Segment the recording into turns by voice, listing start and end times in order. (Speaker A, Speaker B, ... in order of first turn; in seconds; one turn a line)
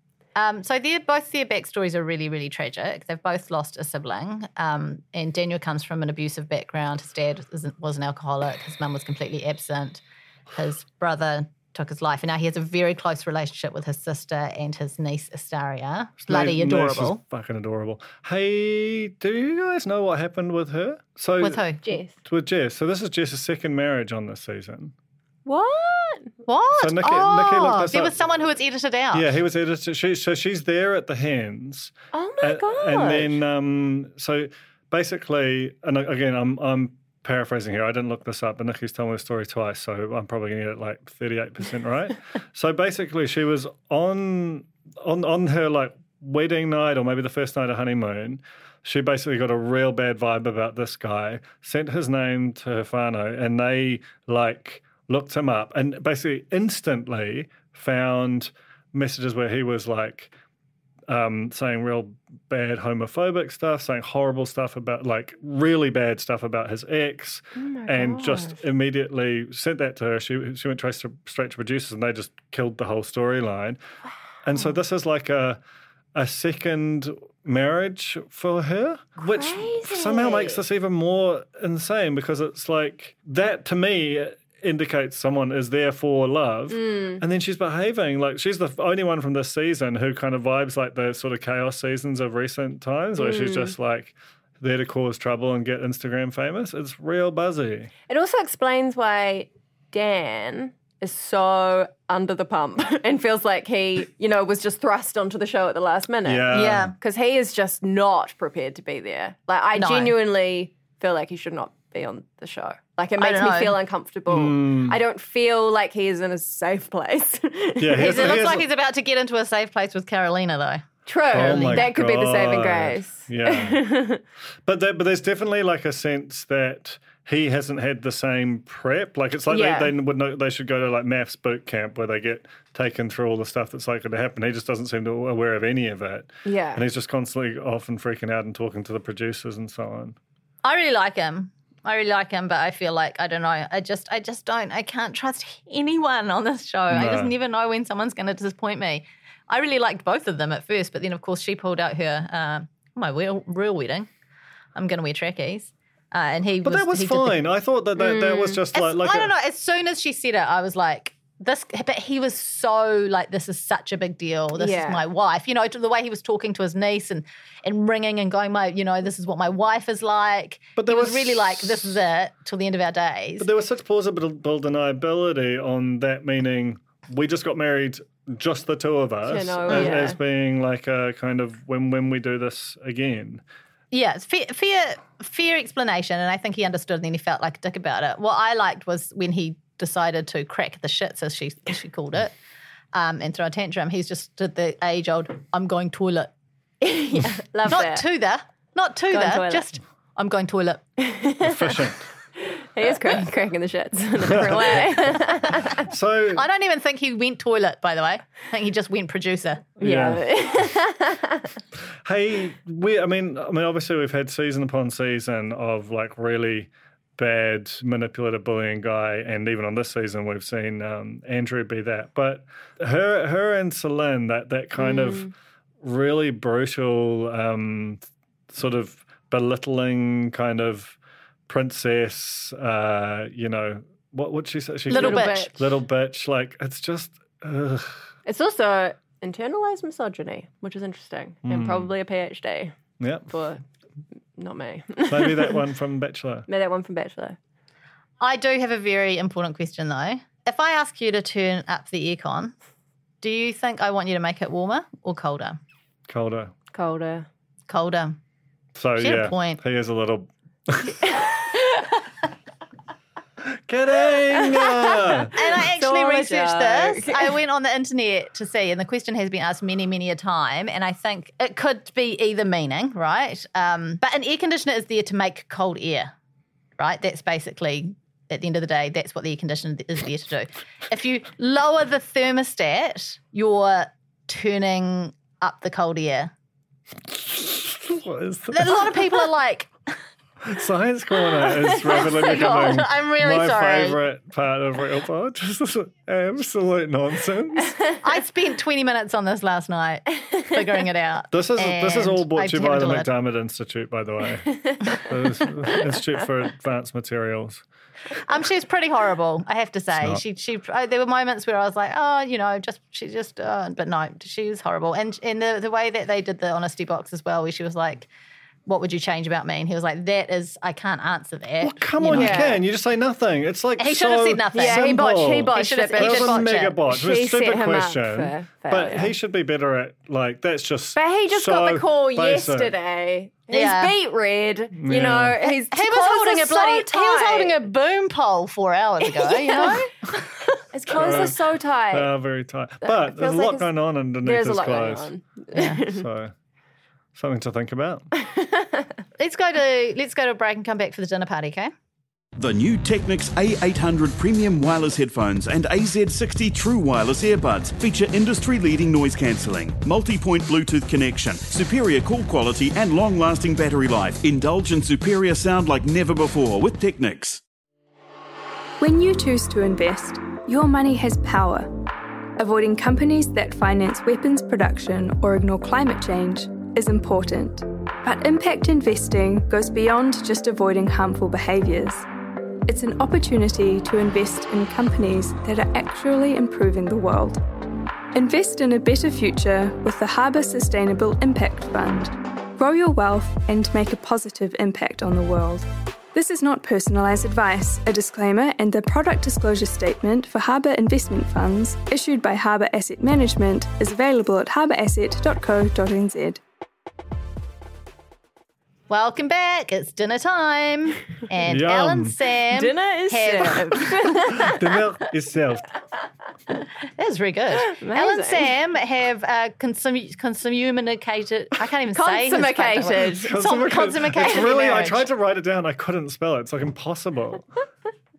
Speaker A: 0.3-10.0
Speaker A: 10.5-17.2
Speaker B: 16.2-21.6
Speaker A: 21.4-21.8
Speaker C: 21.8-22.1
Speaker B: 22.2-24.9
Speaker C: 25.4-26.3
Speaker A: 26.4-29.3
Speaker B: 26.8-28.2
Speaker B: 29.1-60.3
Speaker C: 32.1-33.4
Speaker B: 61.1-73.8
Speaker C: 67.6-68.6
Speaker B: 74.4-75.6
Speaker B: 76.1-97.9
Speaker C: 79.2-80.6
Speaker C: 86.7-87.2
Speaker C: 93.2-93.7
Speaker C: 98.1-118.5
Speaker B: 106.2-106.9
Speaker A: 106.5-106.9
Speaker A: 109.7-110.1
Speaker A: 113.2-113.7
Speaker B: 114.3-115.0
Speaker B: 117.8-118.7
Speaker A: 118.0-121.9
Speaker C: 121.0-124.2
Speaker B: 121.3-123.8
Speaker B: 124.6-140.2
Speaker C: 129.5-129.9
Speaker C: 136.4-136.8
Speaker A: 140.6-154.1
Speaker B: 146.9-147.3
Speaker A: 154.7-157.4
Speaker B: 156.6-159.3
Speaker C: 158.0-158.6
Speaker A: 158.7-173.5
Speaker C: 164.5-165.0
Speaker B: 170.8-172.0
Speaker B: 173.4-183.4
Speaker C: 179.2-180.2
Speaker A: 179.7-179.9
Speaker A: 183.9-192.3
Speaker A: 192.9-196.3
Speaker C: 196.8-198.1
Speaker A: 197.7-200.8
Speaker C: 199.1-199.6
Speaker C: 201.0-205.8
Speaker B: 201.4-202.0
Speaker B: 204.2-205.2
Speaker B: 205.7-206.5
Speaker A: 206.3-209.7
Speaker B: 209.8-210.3
Speaker C: 209.8-211.5
Speaker B: 212.0-230.9
Speaker C: 224.8-225.3
Speaker B: 231.5-238.1
Speaker A: 234.9-235.5
Speaker C: 234.9-235.5
Speaker C: 238.2-242.7
Speaker B: 241.4-241.9
Speaker B: 243.0-243.3
Speaker C: 243.3-243.6
Speaker C: 244.4-245.6
Speaker B: 245.1-246.5
Speaker C: 246.5-247.4
Speaker A: 248.2-252.5
Speaker A: 253.2-255.6
Speaker B: 256.1-256.5
Speaker C: 256.7-257.3
Speaker A: 257.7-258.2
Speaker B: 258.7-261.1
Speaker A: 259.0-259.6
Speaker B: 263.4-265.4
Speaker C: 264.4-267.4
Speaker A: 265.4-276.1
Speaker A: 276.8-286.3
Speaker B: 287.0-289.1
Speaker A: 288.5-289.7
Speaker B: 290.4-297.8
Speaker C: 291.4-292.2
Speaker A: 291.9-294.0
Speaker A: 298.0-303.1
Speaker B: 301.3-307.6
Speaker C: 304.6-305.0
Speaker A: 308.2-318.1
Speaker B: 309.9-310.2
Speaker A: 318.6-322.6
Speaker B: 321.6-332.7
Speaker C: 322.1-322.6
Speaker A: 323.8-326.8
Speaker C: 324.5-329.1
Speaker C: 330.9-337.6
Speaker A: 333.5-333.9
Speaker B: 334.7-335.4
Speaker A: 335.4-340.2
Speaker C: 339.0-339.9
Speaker C: 340.5-342.1
Speaker B: 340.9-341.4
Speaker B: 341.9-345.1
Speaker C: 342.8-343.7
Speaker C: 344.2-346.0
Speaker A: 345.5-345.8
Speaker B: 345.8-346.3
Speaker B: 347.1-348.1
Speaker A: 349.2-351.7
Speaker D: 352.4-367.4
Speaker E: 368.8-371.7
Speaker E: 372.4-382.1
Speaker E: 382.7-387.4
Speaker E: 388.1-406.4
Speaker A: 408.9-414.5
Speaker B: 411.4-412.1
Speaker C: 412.5-414.6
Speaker B: 414.4-415.7
Speaker A: 417.0-425.1
Speaker C: 417.6-418.5
Speaker C: 421.9-423.3
Speaker B: 423.1-427.4